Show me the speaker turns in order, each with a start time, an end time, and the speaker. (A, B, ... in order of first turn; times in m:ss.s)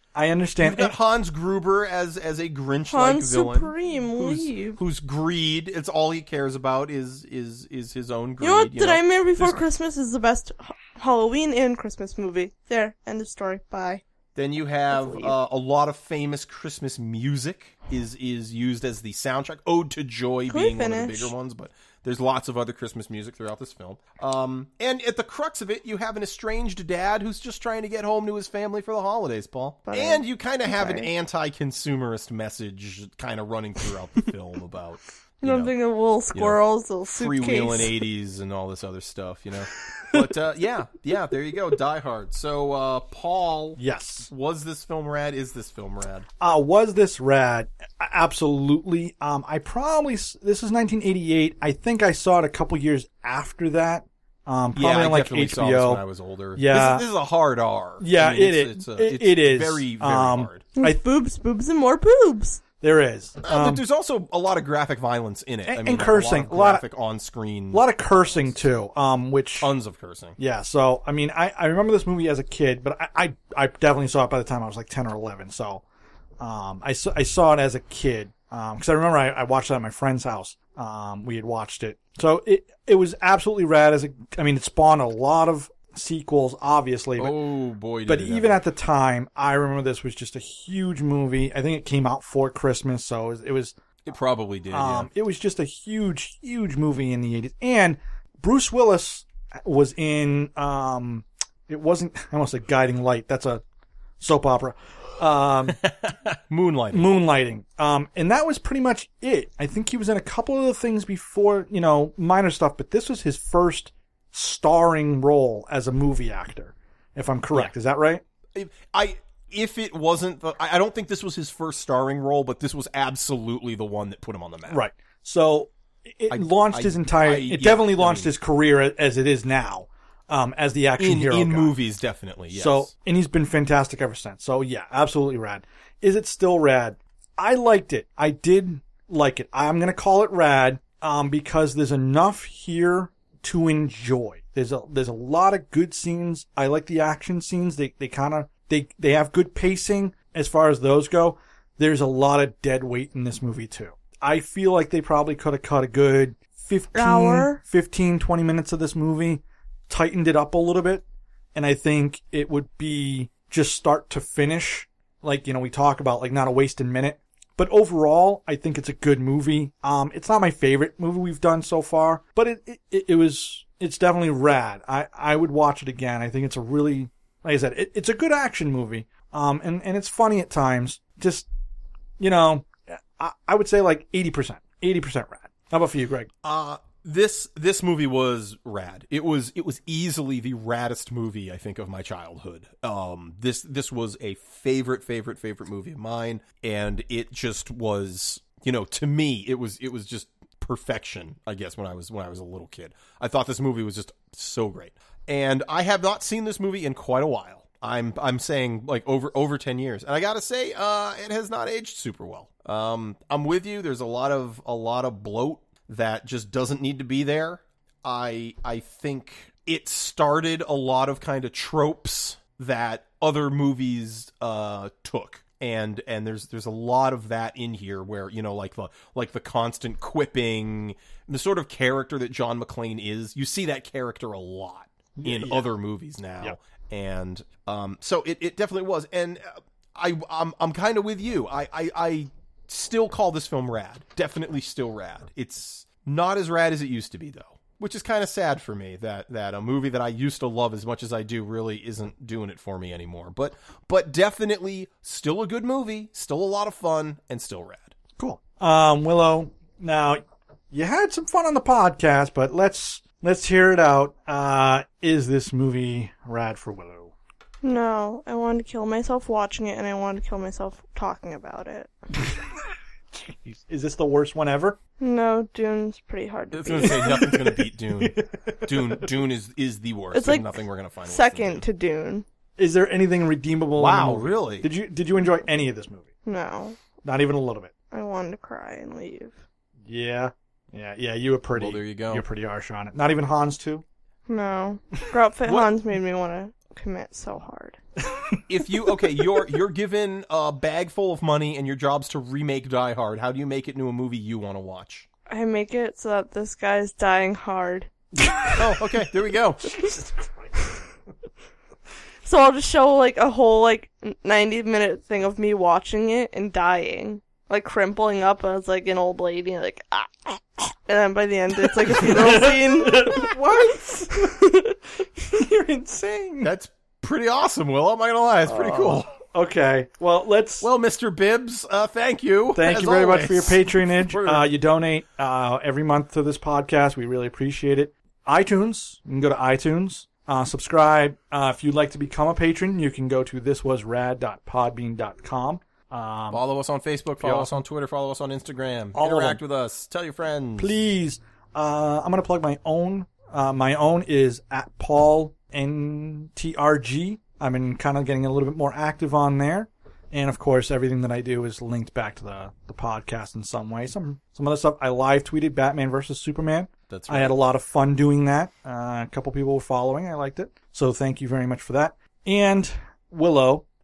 0:00.1-0:00.9 A
0:00.6-0:09.6 B
0:02.9-0:04.8 C
0:08.4-0:14.0 C
0:14.3-0:35.7 B
0:14.9-0:15.3 C
0:20.5-0:21.3 C
0:29.8-0:31.1 C
0:35.4-0:37.9 C
0:37.2-0:46.3 B
0:43.8-0:44.3 A
0:46.4-0:56.0 A
0:54.7-1:00.6 B
0:56.6-0:57.0 A
0:58.0-1:01.0 A
1:00.8-1:02.6 C
1:02.8-1:03.8 A
1:03.4-1:08.6 B
1:05.6-1:06.8 A
1:07.7-1:09.7 A
1:09.6-1:10.4 B
1:10.4-1:15.8 A
1:16.4-1:27.4 A
1:27.2-1:28.6 B
1:28.0-1:33.7 A
1:34.0-1:35.1 B
1:34.7-1:43.6 A
1:44.2-1:45.8 A
1:45.7-1:47.1 B
1:46.9-1:58.2 A
1:58.5-2:04.8 B
2:04.7-2:11.7 A
2:06.3-2:08.3 B
2:11.0-2:12.9 B
2:12.5-3:01.4 A
2:36.9-2:37.6 C
3:02.2-3:06.3 A
3:06.4-4:17.9 B
3:55.2-3:55.7 A
4:18.2-4:27.1 A
4:27.6-4:31.9 C
4:33.2-4:34.8 A
4:35.0-4:37.2 C
4:36.5-4:41.6 B
4:36.8-4:39.1 A
4:40.1-4:42.2 C
4:42.6-4:46.1 A
4:43.8-4:44.7 B
4:46.2-4:46.8 C
4:47.0-4:47.7 A
4:47.9-4:49.4 C
4:49.9-4:53.8 A
4:51.5-4:52.2 B
4:54.3-4:57.8 C
4:55.5-4:55.7 B
4:58.5-5:05.0 B
5:05.3-5:07.9 C
5:08.2-5:08.5 A
5:08.6-5:09.8 B
5:12.2-5:24.7 C
5:21.6-5:24.4 A
5:25.2-5:26.5 A
5:26.4-5:29.1 B
5:28.4-5:30.6 A
5:30.6-5:34.5 B
5:32.5-5:46.4 A
5:46.3-5:50.7 B
5:47.2-5:47.6 A
5:48.9-5:49.4 A
5:50.6-6:13.6 A
6:06.9-6:07.4 B